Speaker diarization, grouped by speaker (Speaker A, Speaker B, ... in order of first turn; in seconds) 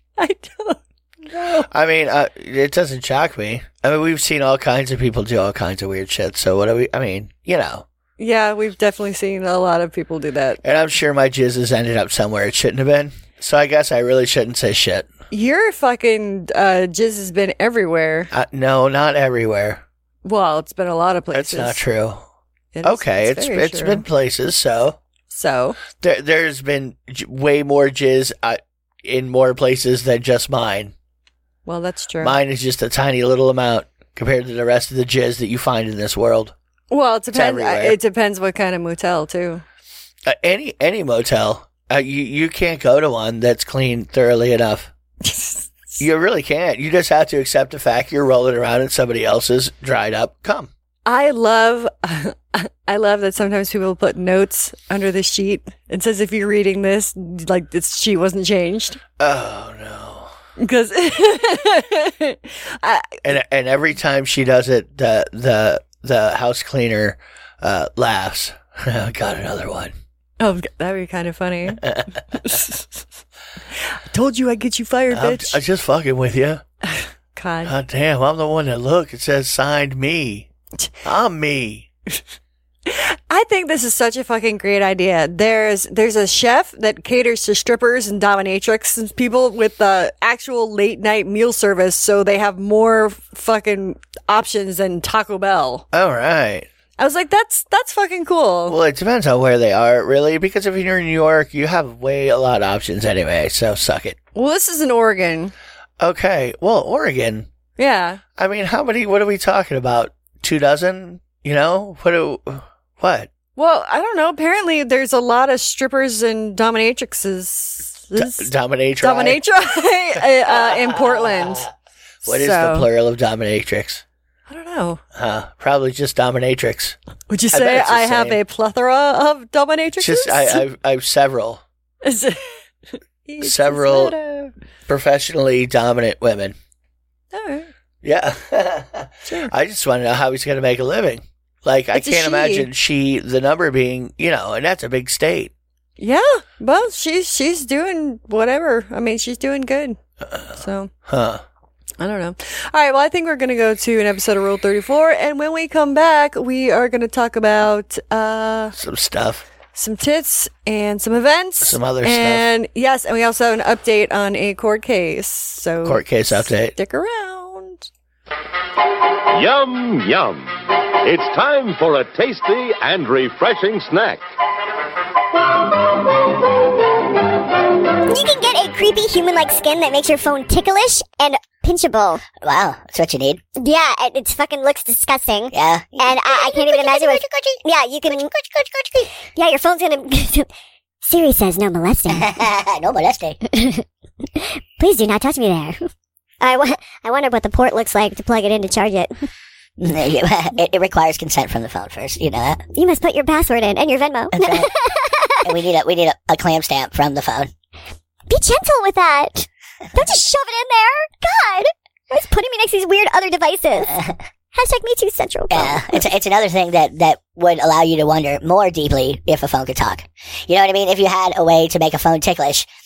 Speaker A: 0.2-1.6, 8.2-10.6, 15.3-18.3, 20.2-21.8, 22.7-24.0, 25.3-25.8, 31.6-32.4, 36.9-39.6, 45.2-46.0, 51.0-59.0, 60.6-63.2, 70.4-73.0, 73.8-75.6, 76.9-77.7, 82.8-95.8, 97.0-98.8, 104.3-105.5, 107.8-108.2, 113.5-121.7, 122.2-122.9, 124.5-125.0, 127.3-130.6, 132.0-132.6, 133.2-134.5, 137.3-137.7, 139.2-139.5, 141.9-142.7, 146.0-150.0, 150.5-150.9, 152.0-158.7, 159.7-167.9
Speaker B: 1.5-7.8, 10.6-15.1, 18.3-19.8, 21.3-22.2, 22.8-25.0, 26.0-30.9, 32.2-36.5, 37.3-38.0, 40.2-44.9, 46.0-50.7, 59.2-60.3, 63.2-69.9, 71.7-72.5, 75.1-76.6, 77.6-80.5, 81.0-81.9, 95.9-96.7, 98.7-104.2, 106.0-107.5, 108.4-113.3, 118.2-119.4, 120.1-121.7, 122.2-124.0, 125.1-127.0, 127.5-128.4, 130.0-131.6, 133.4-134.2, 134.9-136.6, 138.0-145.5, 150.2-151.4, 158.7-159.4, 161.6-162.5, 165.8-166.7
Speaker C: 169.3-174.2
Speaker D: 178.1-182.2, 183.6-190.5, 191.0-192.3, 193.5-193.8, 194.4-195.8, 196.4-199.1, 202.7-205.5, 208.3-213.9, 214.5-216.0
Speaker E: 182.3-183.4, 185.5-187.2, 192.1-193.4, 199.8-202.6, 204.3-204.7, 205.4-207.5, 213.8-214.1, 215.5-222.7